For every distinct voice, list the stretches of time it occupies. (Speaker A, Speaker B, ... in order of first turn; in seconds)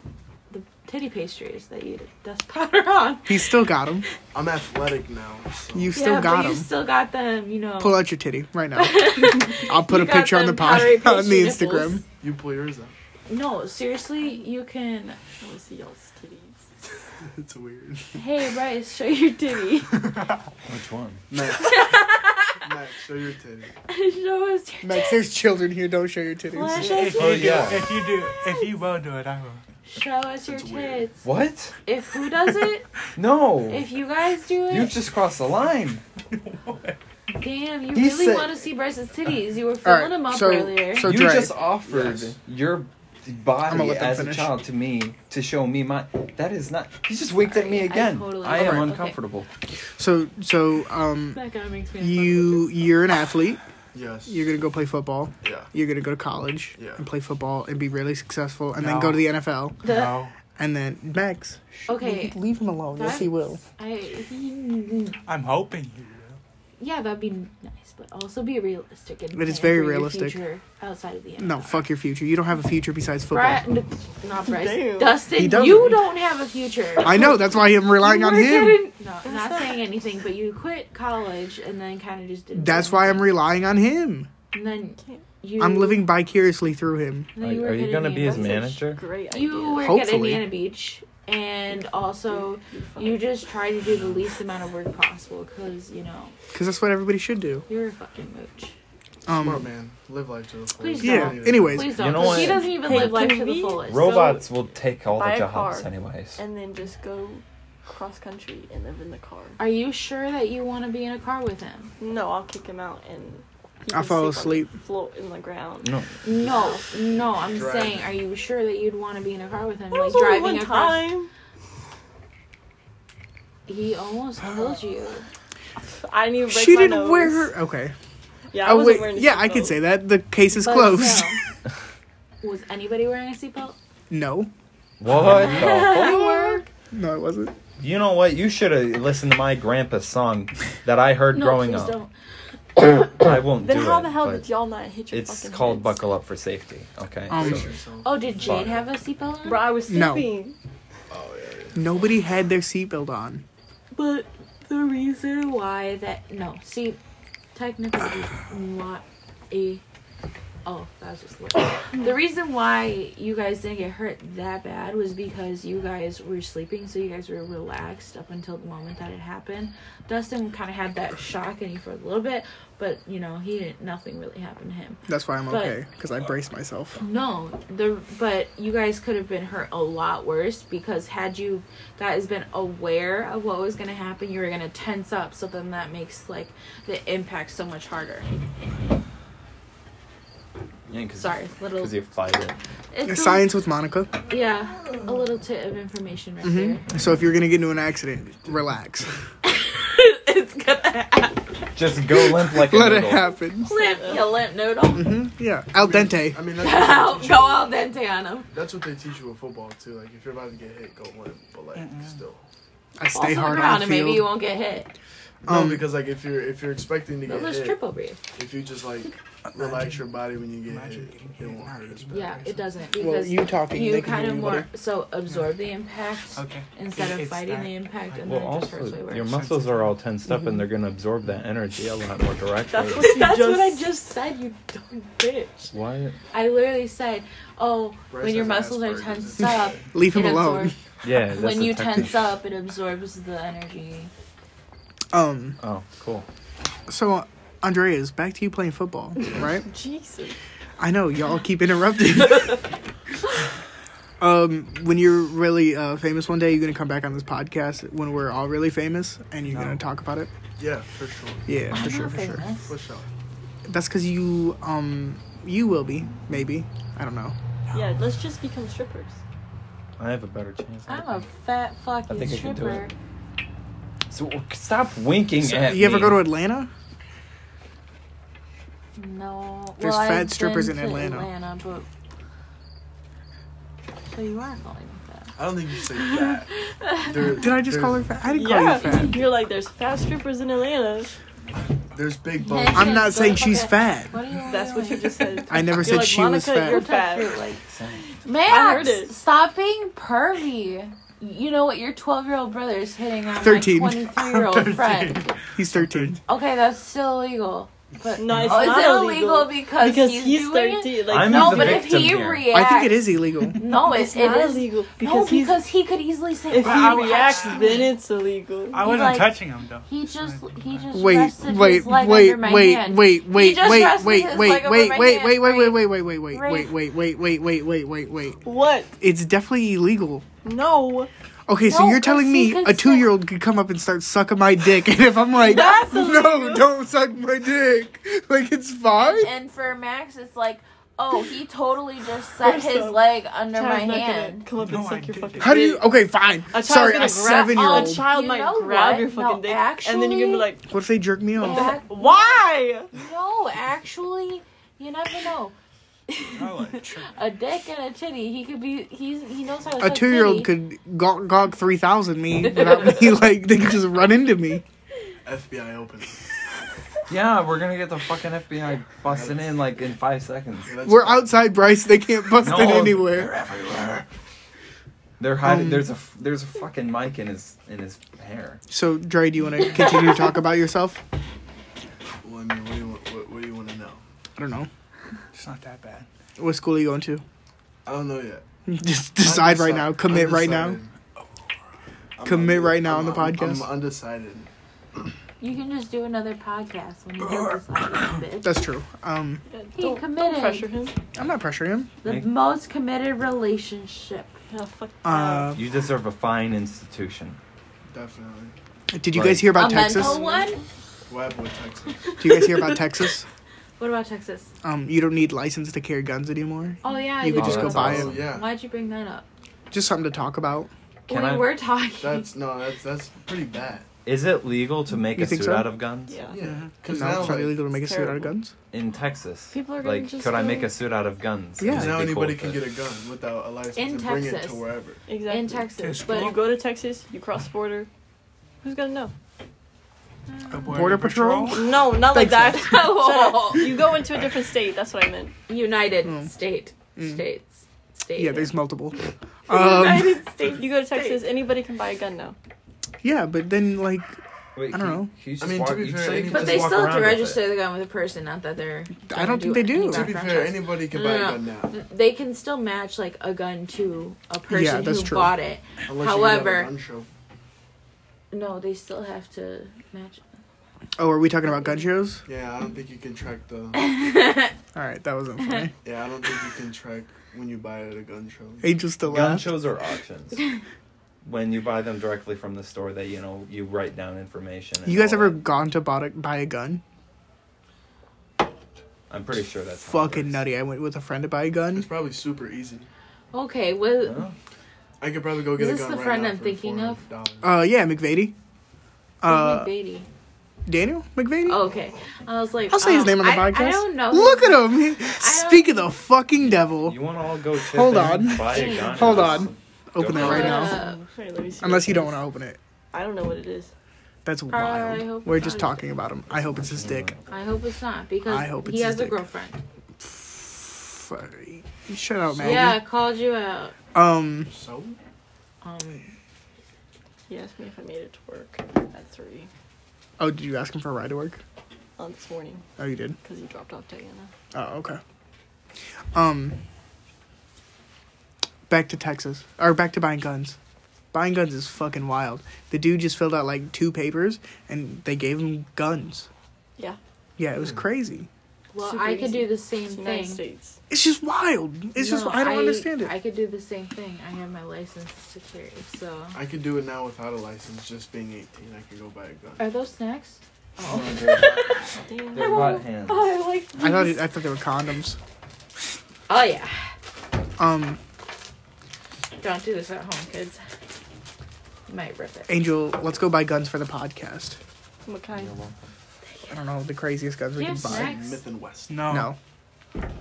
Speaker A: 0.5-3.5, 5.9-8.0, 8.8-12.0, 13.3-15.2, 18.1-19.9, 21.6-22.7, 23.9-25.3, 26.5-27.7, 28.4-28.7, 29.9-31.2, 31.9-32.9, 33.7-35.0, 37.3-41.2, 47.4-49.2, 51.3-52.7, 59.8-60.2, 61.9-62.4, 62.9-65.2, 66.8-71.8, 73.3-83.3, 84.5-86.1, 87.4-96.3, 97.7-98.7, 100.8-104.4, 109.6-111.9, 116.2-121.1, 123.7-125.3, 130.5-131.4, 132.4-133.8, 135.2-136.7, 141.3-142.1, 148.0-149.7, 153.9-157.0, 157.6-159.8, 160.7-175.8, 177.0-188.3, 191.2-191.9, 192.9-193.5, 194.3-196.8, 199.4-202.3, 203.7-205.1, 206.6-208.5, 213.1-214.9, 217.3-218.2, 222.1-229.3, 232.9-235.7, 236.3-240.7, 241.3-244.1, 261.7-262.7, 270.9-272.9, 279.0-281.9, 284.1-287.5, 288.7-289.0, 292.4-295.2, 296.6-305.4, 306.3-317.9, 318.8-326.7, 331.6-333.2, 335.4-336.1, 339.1-344.5, 347.4-350.5, 351.4-355.6, 356.1-360.5, 362.5-363.0, 395.4-398.5, 399.8-400.7, 402.0-404.4, 409.5-410.6, 413.8-414.5, 416.8-419.3, 421.1-422.3, 430.2-430.6, 433.8-434.6, 435.3-436.4, 440.4-440.8, 442.6-443.7, 445.5-448.6, 449.5-451.2, 456.3-466.7, 468.3-470.4, 473.8-474.6, 493.3-494.2, 495.5-497.0, 499.2-500.1, 501.5-505.9, 508.5-509.5, 510.1-511.0, 514.5-515.8, 517.3-519.6, 522.4-523.8, 525.6-526.1, 548.7-550.4, 552.0-556.4, 559.6-564.2, 566.3-566.9, 569.4-570.6, 571.9-572.5, 577.6-578.4
Speaker B: 3.3-4.1, 5.7-6.7, 7.8-12.0, 24.8-27.0, 39.8-41.6, 43.7-44.5, 48.5-48.9, 50.0-51.4, 52.0-53.6, 54.3-59.8, 60.5-63.6, 69.3-70.4, 71.4-73.6, 75.3-76.0, 77.0-78.9, 82.5-84.3, 85.6-87.3, 89.8-90.5, 96.5-97.7, 99.3-99.7, 101.0-102.2, 113.9-114.7, 126.5-127.9, 128.6-131.4, 134.1-134.5, 136.9-137.6, 147.3-147.7, 149.9-150.3, 151.8-153.4, 175.1-177.0, 193.1-194.1, 196.4-199.1, 202.5-203.7, 204.9-206.4, 213.0-214.3, 215.5-215.9, 223.0-224.7, 239.9-240.8, 245.1-245.6, 246.9-249.7, 250.8-252.6, 254.2-260.3, 261.5-262.5, 263.7-267.4, 275.4-276.7, 279.8-281.3, 287.4-289.2, 292.7-294.2, 295.5-296.8, 303.4-304.1, 305.5-306.2, 312.5-313.6, 320.9-328.4, 329.0-330.2, 331.5-339.3, 345.4-348.1, 350.7-351.7, 359.8-364.6, 370.9-373.3, 375.4-375.9, 378.7-381.0, 384.4-384.7, 386.4-387.2, 388.7-390.8, 392.3-393.7, 398.4-399.4, 401.1-401.9, 405.0-405.6, 408.9-410.2, 412.2-413.3, 414.6-418.1, 419.7-420.7, 425.1-425.8, 426.8-428.5, 431.6-432.0, 440.7-442.7, 446.1-446.3, 447.0-447.2, 448.2-450.2, 453.0-454.2, 454.7-455.1, 459.1-460.1, 464.5-465.4, 471.0-472.2, 474.8-475.7, 478.6-479.5, 484.9-486.8, 489.8-491.9, 497.4-498.3, 499.2-499.7, 500.7-501.6, 502.7-510.8, 511.6-512.6, 514.2-517.1, 518.3-519.2, 520.0-522.8, 523.9-524.5, 530.2-531.4, 532.8-533.2, 534.5-535.0, 536.1-536.6, 538.7-540.6, 541.1-546.3, 547.4-548.3, 550.9-553.1, 563.8-565.2, 567.6-568.0, 572.5-574.6, 576.5-578.1, 579.1-579.4
Speaker C: 4.3-6.0, 12.2-12.9, 17.2-18.2, 21.3-22.1, 22.6-23.7, 30.5-31.1, 41.8-42.4, 53.9-54.5, 55.4-55.7, 56.8-57.0, 99.3-101.9, 117.4-118.2, 147.3-148.9, 151.1-152.2, 205.8-207.7, 208.5-212.4, 215.4-217.8, 218.4-222.3, 238.1-239.8, 260.6-261.5, 262.6-263.1, 285.4-286.5, 287.0-288.0, 291.9-293.4, 365.2-366.2, 369.1-369.7, 370.7-371.5, 382.2-384.0, 387.9-388.4, 389.2-390.9, 392.2-394.5, 407.9-408.6, 411.1-412.2, 417.5-418.5, 422.0-423.9, 426.3-427.6, 431.7-435.0, 455.4-457.0, 459.9-461.8, 465.9-467.1, 472.3-473.9, 475.8-478.8, 491.7-492.9, 495.0-497.5, 522.4-522.7, 524.5-525.0, 547.5-547.8, 556.3-559.7, 560.9-561.5, 577.8-579.0
Speaker D: 15.4-16.6, 74.5-75.2, 79.2-79.9, 88.4-89.9, 92.2-93.2, 102.3-104.0, 105.1-109.6, 112.0-116.9, 119.9-121.3, 125.9-127.5, 128.5-129.8, 143.6-146.0, 149.4-150.6, 203.7-204.2, 232.7-234.0, 249.4-250.4, 267.7-269.2, 288.3-291.1, 294.5-297.4, 298.4-299.1, 308.2-312.0, 313.6-315.6, 316.5-318.9, 328.4-328.9, 330.4-331.1, 335.4-336.7, 342.4-345.9, 346.5-350.7, 351.5-352.9, 399.5-401.0, 404.5-405.6, 409.8-410.6, 426.1-426.4, 427.7-428.3, 429.5-430.7, 435.1-437.9, 438.6-439.1, 441.5-445.4, 450.6-452.4, 510.1-512.2, 512.9-513.7, 527.3-529.5, 532.0-532.6, 533.2-534.3, 548.8-550.8, 562.0-562.8, 575.1-575.5
Speaker E: 20.6-21.2, 27.2-27.9, 31.2-31.8, 33.2-33.9, 34.7-36.0, 37.9-38.6, 41.0-49.5, 87.4-89.0, 101.9-106.4, 115.8-116.5, 135.0-136.6, 137.8-142.0, 143.1-144.4, 145.1-147.7, 148.4-148.8, 190.9-192.6, 201.8-203.3, 228.2-233.2, 235.7-236.2, 241.0-242.3, 245.6-246.2, 270.0-271.3, 272.1-272.9, 274.1-276.3, 297.6-298.1, 311.1-312.5, 367.1-370.8, 372.4-374.1, 375.2-378.6, 402.1-402.3, 405.5-407.4, 409.1-409.6, 417.3-418.3, 421.1-421.6, 424.1-426.3, 428.7-432.7, 454.6-457.4, 479.0-480.5, 481.2-485.4, 489.1-490.4, 494.0-494.4, 506.8-510.7, 516.5-517.2, 561.0-561.4, 562.3-563.3, 575.3-575.8
Speaker F: 26.7-29.6, 36.3-37.0, 58.8-60.4, 65.3-66.4, 211.8-212.2, 219.5-220.0, 220.7-222.7, 226.3-228.6, 229.2-230.0, 259.5-259.8, 304.2-306.2, 308.3-308.7, 316.6-317.9, 318.7-321.0, 344.6-345.6, 356.3-357.2, 385.3-386.1, 426.3-426.7, 435.8-436.4, 440.5-441.6, 578.9-579.3